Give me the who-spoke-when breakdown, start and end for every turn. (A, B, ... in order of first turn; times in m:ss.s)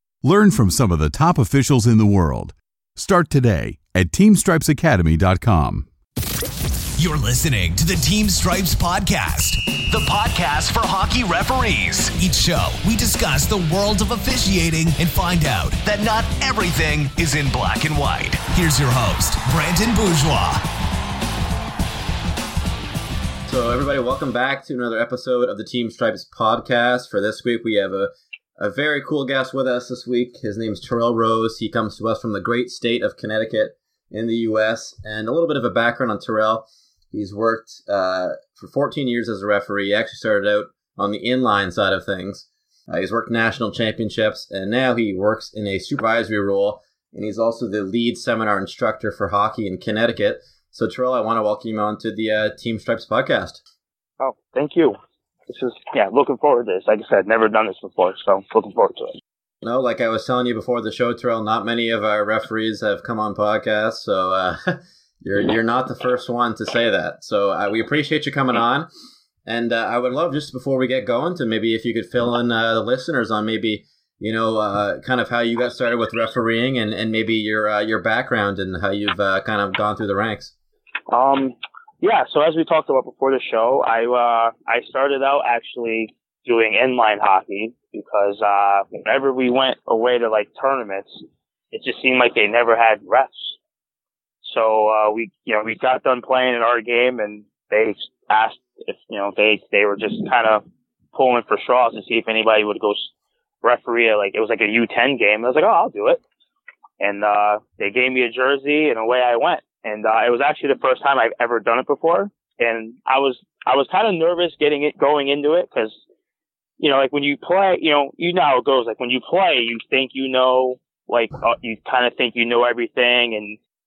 0:00.2-0:05.9 A
0:07.0-0:20.6 B
0:23.5-0:53.6 C
0:54.2-0:55.0 D
0:55.5-0:59.1 D
0:59.6-1:08.9 C
1:09.4-1:20.5 C
1:21.1-1:33.6 D
1:34.4-1:43.1 D
1:43.6-1:46.2 D
1:47.0-1:56.0 D
1:56.8-2:03.6 D